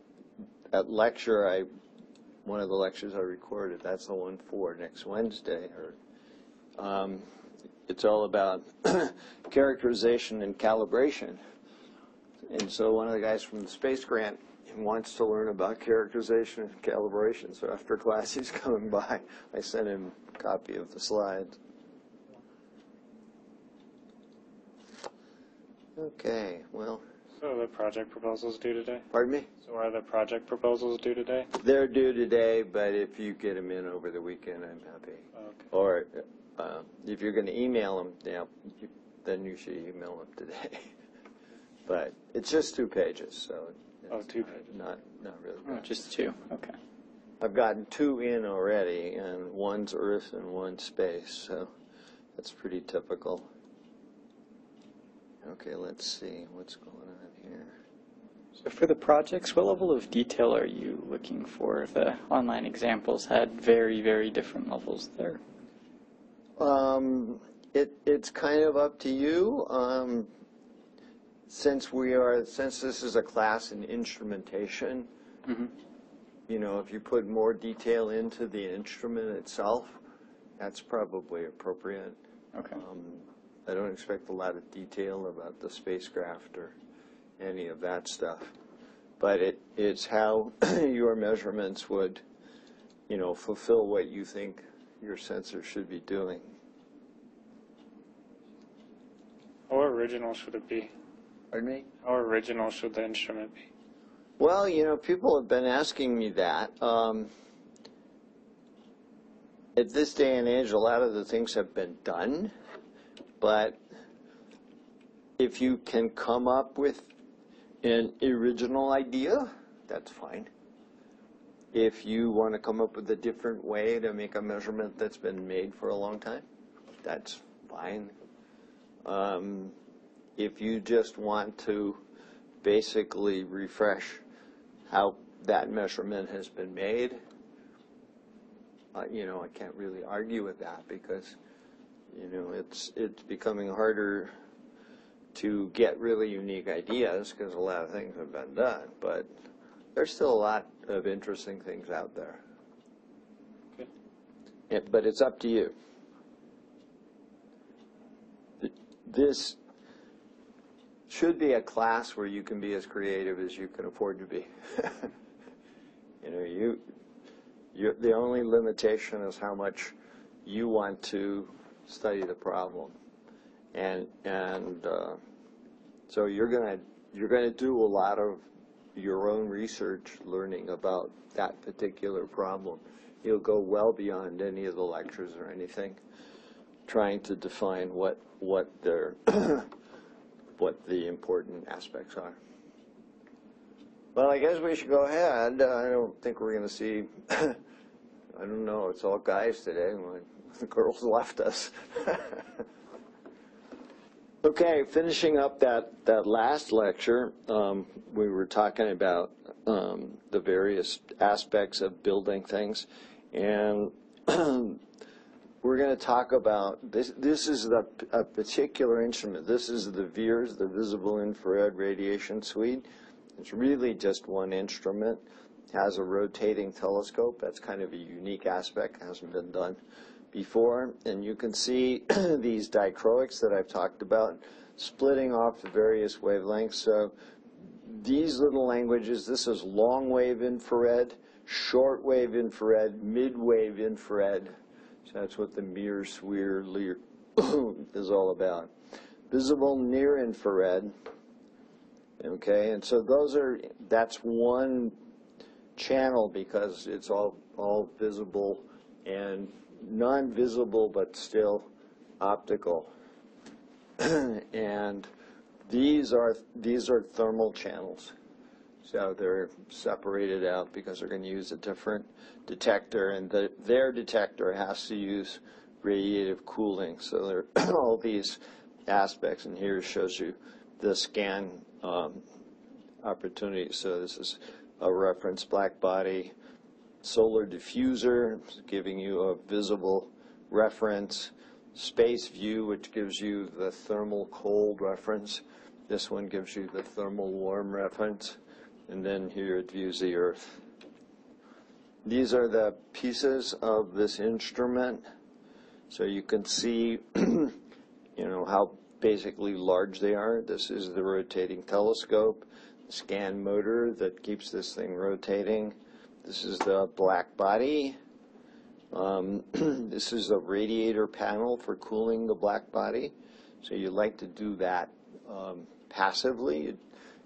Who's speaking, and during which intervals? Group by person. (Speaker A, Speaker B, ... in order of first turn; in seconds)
Speaker A: 0.7-1.7, 2.5-6.0, 6.8-7.2, 7.9-11.4, 12.5-21.6, 26.0-27.0, 29.1-29.5, 31.6-40.9, 41.9-45.9, 47.4-51.7, 52.4-53.5, 55.4-57.8, 66.6-70.3, 71.5-75.1, 76.5-80.0, 80.6-82.2, 82.7-86.7, 87.4-88.5, 89.2-92.2, 93.1-96.5, 101.5-101.9, 104.4-107.3, 109.8-112.5, 113.4-113.8, 115.4-117.1, 117.8-120.5, 121.7-126.5, 127.0-128.1, 129.1-129.8, 130.4-132.0, 132.6-134.2, 134.9-137.2, 138.9-141.4, 142.1-144.3, 145.3-149.3, 149.9-152.4, 154.7-155.7, 158.6-159.6, 161.1-165.1, 166.2-166.8, 167.7-169.9, 170.4-172.9, 173.7-175.2, 176.1-186.0, 186.9-189.7, 190.6-192.4, 194.2-197.6, 198.3-202.5, 204.4-214.8, 215.6-222.9, 223.4-229.8, 230.3-237.1, 237.8-244.5, 245.1-248.7, 249.3-250.9, 252.2-255.0, 255.8-261.7, 262.2-262.9, 264.0-265.1, 265.7-268.1, 268.8-282.2, 283.0-286.3, 287.0-300.6, 302.1-305.0, 305.9-307.6, 308.2-318.0, 318.9-326.8
Speaker B: 27.4-29.1, 29.6-31.5, 44.1-44.5, 99.7-100.9, 102.0-103.6
Speaker C: 45.7-46.8, 58.6-65.4